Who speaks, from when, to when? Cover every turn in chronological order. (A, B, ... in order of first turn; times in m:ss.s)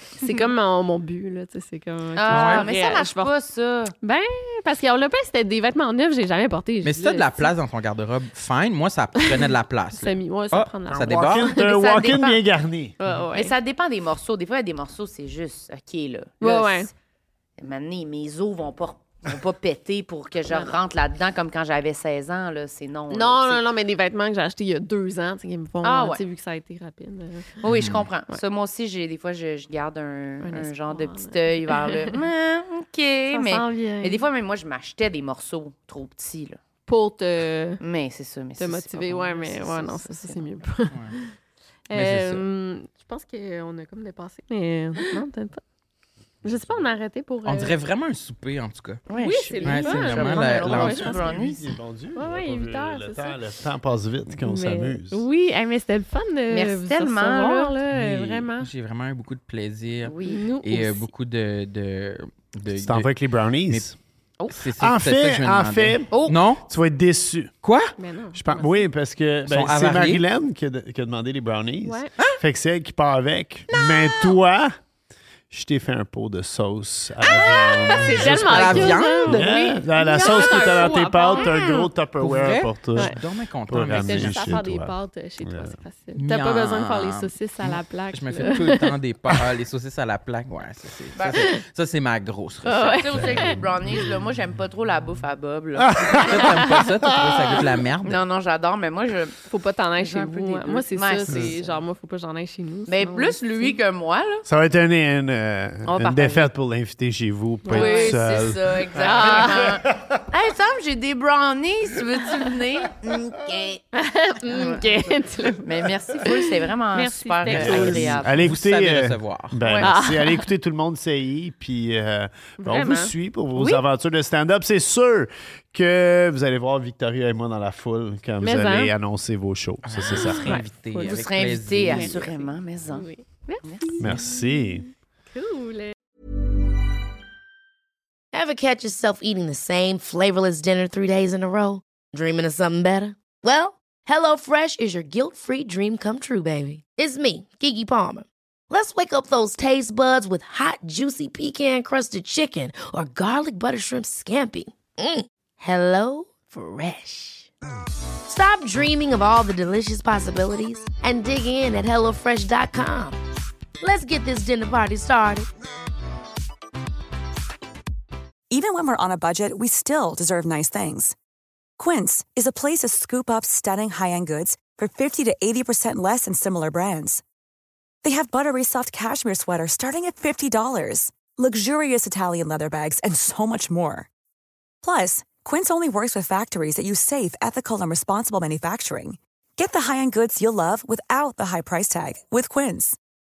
0:00.2-0:03.3 A
0:00.2-0:00.4 B
0:02.2-0:03.9 B
0:02.3-0:02.6 C
0:04.0-0:07.5 A
0:06.8-0:11.5 C
0:10.0-0:12.4 A
0:10.9-0:12.9 D
0:11.7-0:12.3 B
0:13.0-0:13.5 A
0:13.3-0:16.9 B
0:16.4-0:16.9 A
0:17.6-0:23.6 B
0:23.1-0:27.6 A
0:25.8-0:26.2 B
0:27.6-0:36.6 B
0:27.7-0:28.0 C
0:30.4-0:32.0 A
0:33.3-0:34.2 A
0:36.9-0:37.8 A
0:37.8-0:40.4 B
0:38.6-0:41.3 A
0:40.9-0:41.2 C
0:41.9-0:45.6 A
0:41.9-0:42.4 C
0:46.4-0:47.7 A
0:47.4-0:49.0 C
0:49.1-0:51.6 B
0:49.2-0:51.2 A
0:49.6-0:51.1 C
0:50.2-0:55.2 D
0:52.1-0:53.3 A
0:54.4-0:58.7 A
0:56.5-0:57.8 B
0:57.9-1:03.1 C
1:00.0-1:00.4 B
1:00.3-1:01.1 A
1:02.7-1:03.9 D
1:04.5-1:06.6 C
1:04.7-1:07.5 D
1:06.1-1:06.4 B
1:07.6-1:07.9 C
1:08.0-1:08.9 A
1:08.3-1:14.8 D
1:09.5-1:10.2 C
1:11.8-1:12.1 A
1:15.5-1:25.8 D
1:17.3-1:21.9 A
1:18.2-1:19.4 C
1:22.2-1:24.6 C
1:23.8-1:28.9 A
1:26.2-1:33.4 C
1:32.6-1:33.4 A
1:32.8-1:36.4 B
1:35.8-1:37.5 D
1:36.2-1:38.2 C
1:38.0-1:39.4 B
1:39.5-1:43.8 A
1:40.0-1:41.8 B
1:42.9-1:44.4 B
1:44.4-1:49.5 D
1:45.9-1:46.4 B
1:45.9-1:46.4 A
1:47.6-1:48.2 A
1:47.7-1:53.8 B
1:49.0-1:49.6 A
1:53.9-1:55.6 A
1:54.5-1:58.4 B
1:56.9-1:58.2 A
1:57.5-2:10.6 D
1:57.5-1:59.6 C
1:59.6-1:59.9 B
1:59.8-2:00.5 A
2:02.6-2:03.8 A
2:08.4-2:08.9 A
2:09.8-2:12.2 C
2:10.1-2:11.3 A
2:11.0-2:13.1 B
2:11.9-2:14.7 A
2:13.6-2:14.0 B
2:14.0-2:14.8 D
2:15.3-2:15.9 A
2:18.3-2:37.5 E
2:38.2-2:43.2 E
2:43.8-2:45.5 E
2:48.5-2:51.1 F
2:51.8-2:57.2 F
2:58.0-3:04.1 F
3:04.8-3:13.0 F